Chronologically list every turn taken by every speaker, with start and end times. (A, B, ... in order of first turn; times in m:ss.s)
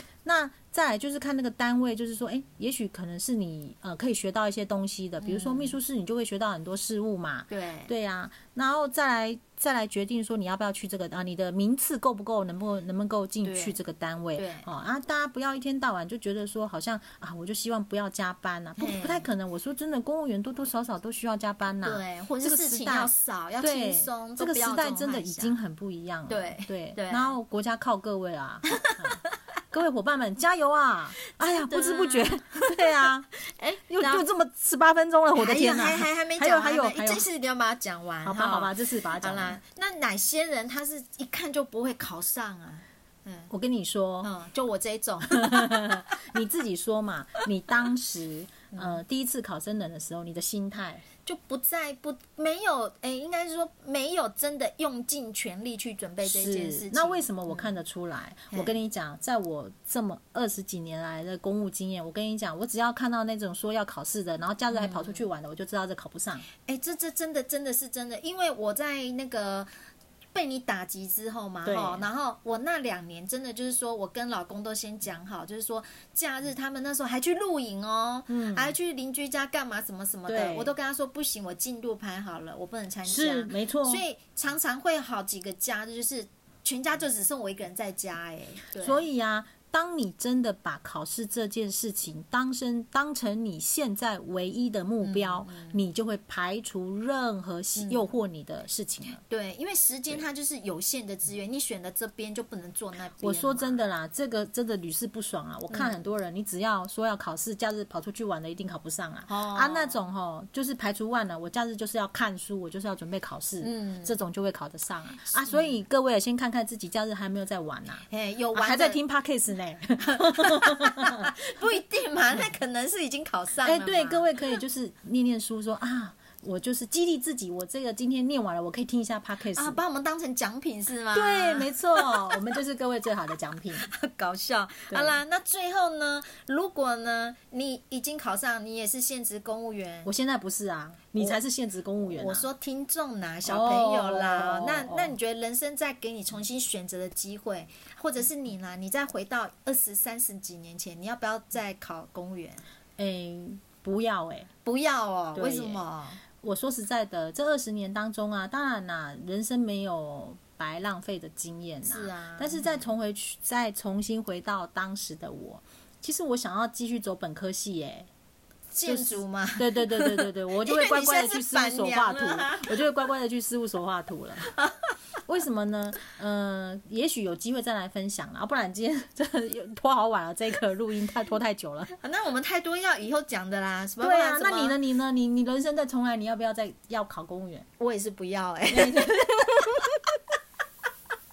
0:00.2-0:33.3 A
0:05.2-0:05.8 B
0:07.5-0:07.9 B
0:13.4-0:13.8 B
0:14.4-0:14.7 B
0:18.8-0:19.3 B
0:21.8-0:25.6 B
0:26.3-0:27.4 B
0:28.8-0:29.4 B
0:31.5-0:34.3 B
0:33.9-0:37.2 A
0:35.3-0:43.5 B
0:38.2-0:39.6 A
0:43.5-0:44.3 A
0:44.2-0:46.2 B
0:45.2-0:51.0 A
0:48.7-0:49.0 B
0:51.2-0:57.7 B
0:56.2-1:06.5 A
1:04.7-1:05.2 B
1:06.6-1:09.7 B
1:10.4-1:29.1 B
1:11.6-1:12.0 A
1:18.3-1:18.7 A
1:20.3-1:20.7 A
1:23.1-1:24.0 A
1:28.8-1:39.2 A
1:35.0-1:35.8 B
1:37.8-1:38.1 B
1:39.3-1:43.8 B
1:43.2-2:01.3 A
1:45.7-1:46.1 B
1:49.3-1:50.0 B
1:53.6-1:54.2 B
1:55.4-1:55.7 B
1:58.1-1:59.0 B
2:00.0-2:04.3 B
2:03.6-2:09.8 A
2:09.5-2:12.4 B
2:11.1-2:13.9 A
2:13.8-2:20.1 B
2:14.9-2:15.2 A
2:20.0-2:22.5 A
2:22.0-2:32.6 B
2:23.4-2:25.1 A
2:33.0-2:34.5 A
2:34.6-2:36.2 B
2:35.4-2:35.8 A
2:36.4-2:48.1 A
2:41.8-2:42.8 B
2:48.7-2:52.8 B
2:48.9-2:54.5 A
2:55.3-3:01.9 A
3:02.0-3:04.8 B
3:04.0-3:07.7 A
3:07.8-3:10.1 B
3:08.7-3:09.5 A